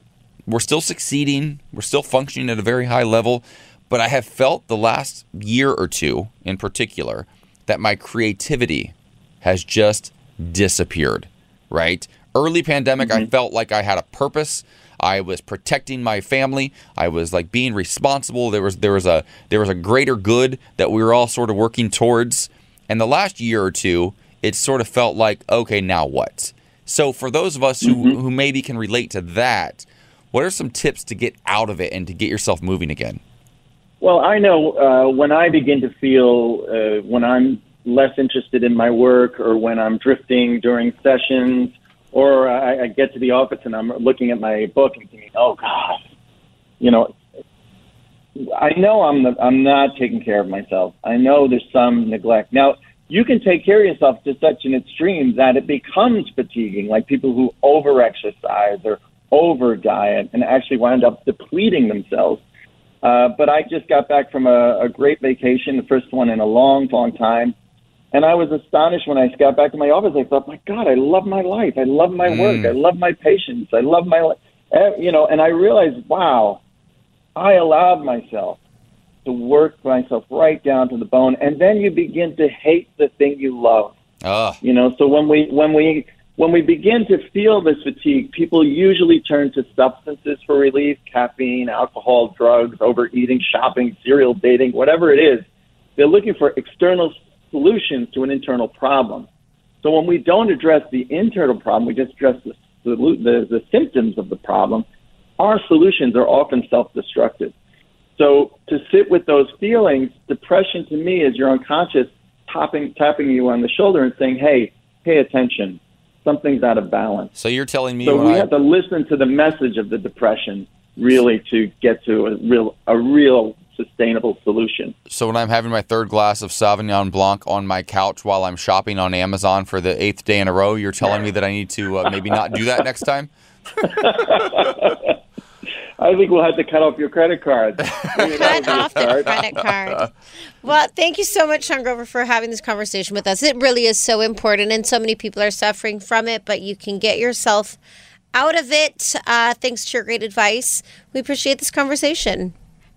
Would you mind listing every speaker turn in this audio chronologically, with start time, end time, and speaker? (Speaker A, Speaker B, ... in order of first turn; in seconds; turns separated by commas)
Speaker A: 0.5-33.2, Speaker B: 13.0-13.3, Speaker B: 27.8-28.2, Speaker B: 34.0-46.0, Speaker B: 46.8-47.1, Speaker B: 48.4-62.4, Speaker B: 63.0-67.5, Speaker B: 68.1-76.6, Speaker A: 72.2-72.7, Speaker B: 77.4-78.6, Speaker B: 79.3-83.9, Speaker A: 84.2-84.6, Speaker B: 84.6-95.5, Speaker B: 96.0-99.3, Speaker B: 99.8-104.8, Speaker B: 105.4-107.5, Speaker B: 108.2-117.3, Speaker A: 117.4-118.5, Speaker B: 118.0-124.9, Speaker A: 125.1-133.3, Speaker B: 131.0-131.3, Speaker B: 132.4-132.9, Speaker B: 133.8-135.2, Speaker B: 136.0-139.4, Speaker A: 137.9-140.1, Speaker C: 138.2-140.1, Speaker C: 140.6-147.8, Speaker C: 148.3-152.5